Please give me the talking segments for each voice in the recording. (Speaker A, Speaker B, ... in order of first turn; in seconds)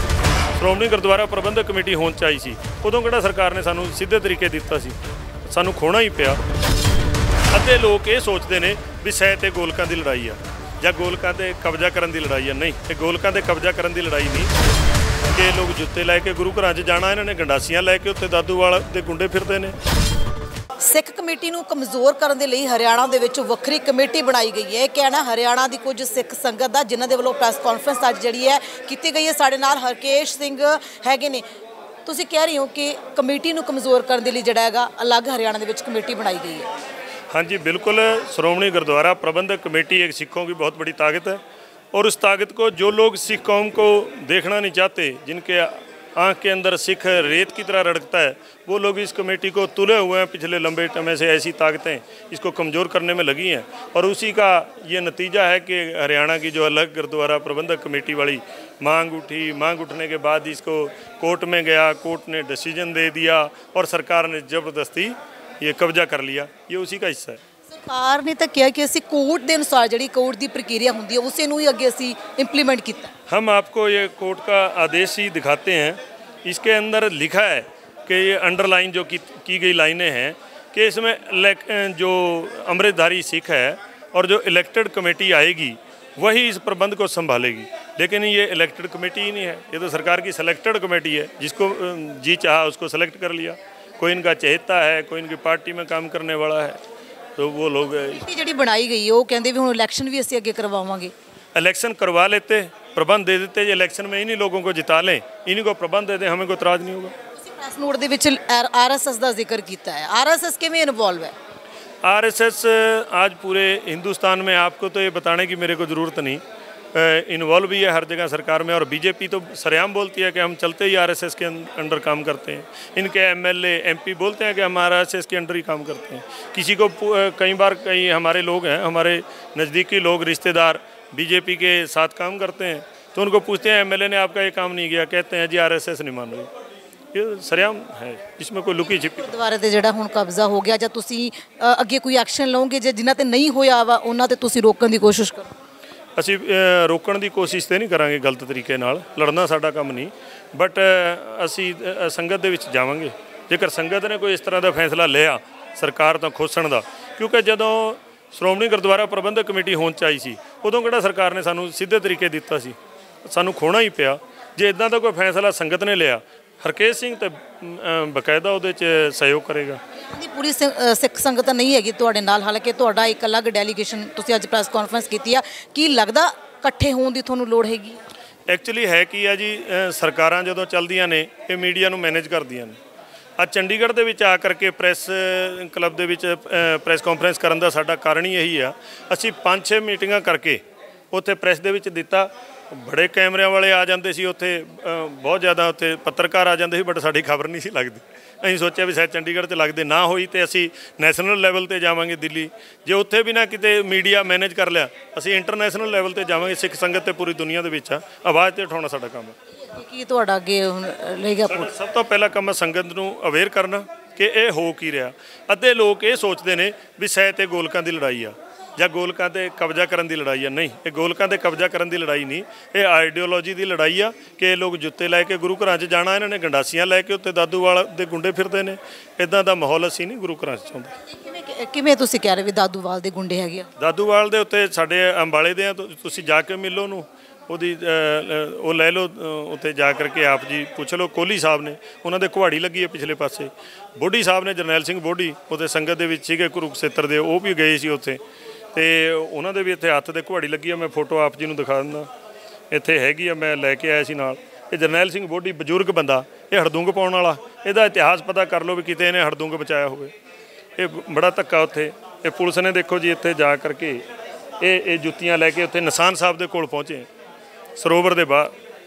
Speaker A: 0.6-6.4, 7.5-14.5, 15.3-19.8, 37.3-41.4, 41.9-67.4, 73.3-96.8, 97.4-98.2, 101.5-107.1, 112.0-116.4, 116.9-136.5, 137.1-139.3, 146.2-169.8, 178.5-182.8, 183.4-209.3, 211.5-230.9, 233.8-248.2, 248.7-252.1, 252.7-260.1, 260.8-264.0, 264.6-267.1, 267.8-268.5
Speaker B: 20.8-31.4, 32.0-36.7, 67.7-73.1, 98.0-101.1, 107.4-111.3, 139.0-145.5, 170.0-178.0, 209.6-211.7, 231.1-233.7